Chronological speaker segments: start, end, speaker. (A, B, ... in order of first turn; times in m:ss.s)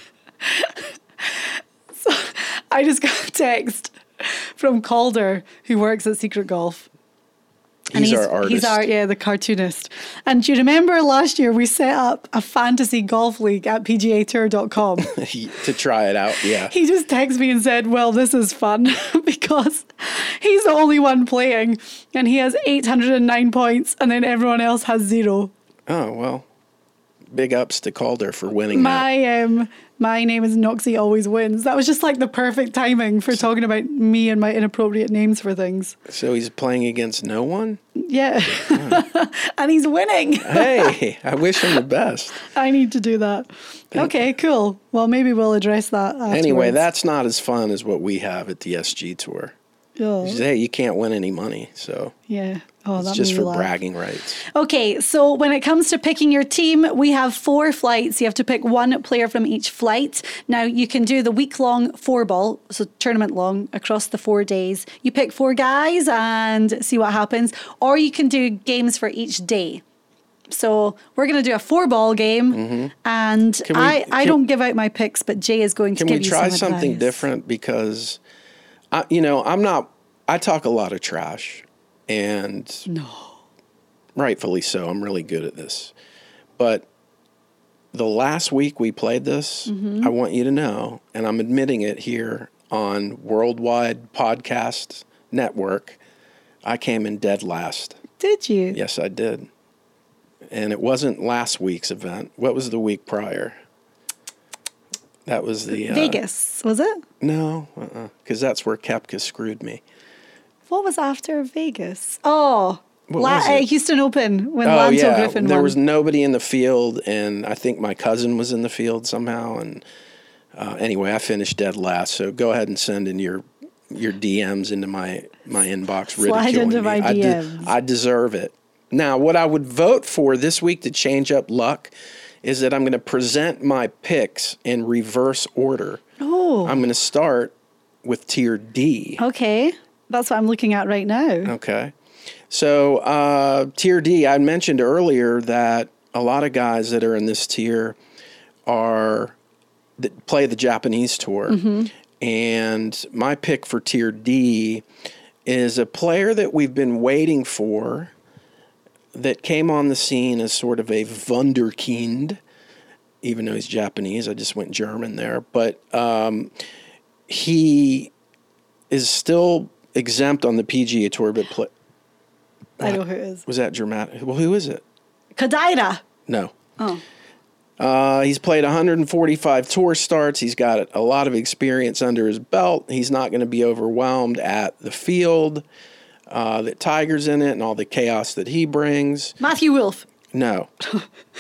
0:00.4-0:06.9 A
0:07.9-0:08.9 B
0:07.9-0:15.1 A
0:15.0-0:16.7 B
0:16.7-0:25.5 A
0:25.9-0:26.5 B
0:27.3-0:29.1 B
0:28.7-0:36.0 A
0:36.1-0:37.8 B
0:38.0-0:41.0 A
0:38.7-0:39.0 B
0:40.4-0:42.4 B
0:42.4-0:46.8 A
0:43.9-0:44.2 B
0:46.3-0:49.6 B
0:50.0-0:50.4 A
0:50.2-0:52.1 B
0:52.3-0:53.7 A
0:53.0-0:54.4 B
0:54.4-1:09.8 A
1:10.5-1:17.3 A
1:12.5-1:12.9 B
1:13.6-1:14.4 B
1:16.0-1:18.2 B
1:18.9-1:22.9 B
1:22.9-1:23.4 A
1:24.2-1:25.9 B
1:26.6-1:26.9 B
1:27.9-1:36.0 B
1:29.7-1:30.1 A
1:36.6-1:38.0 B
1:38.2-1:38.8 A
1:38.7-1:39.5 B
1:40.5-1:43.6 B
1:45.3-1:46.2 B
1:45.7-1:47.0 A
1:47.2-1:49.8 B
1:50.7-1:55.8 A
1:53.1-1:53.7 B
1:54.6-1:59.8 B
2:00.6-2:16.0 B
2:06.2-2:07.7 A
2:16.2-2:16.8 A
2:16.6-2:19.2 B
2:19.2-2:21.5 A
2:21.4-2:21.9 B
2:22.5-2:28.0 B
2:28.7-2:29.4 B
2:30.0-2:31.6 B
2:31.5-2:31.9 A
2:32.2-2:34.8 B
2:35.4-2:38.1 B
2:39.1-2:42.4 B
2:43.2-2:46.5 B
2:47.3-2:48.1 B
2:48.9-2:51.7 B
2:52.8-2:54.8 B
2:52.8-2:53.4 A
2:55.4-2:56.0 A
2:56.3-2:56.6 B
2:57.8-3:05.6 B
3:06.3-3:09.4 B
3:09.4-3:10.1 A
3:10.3-3:10.7 B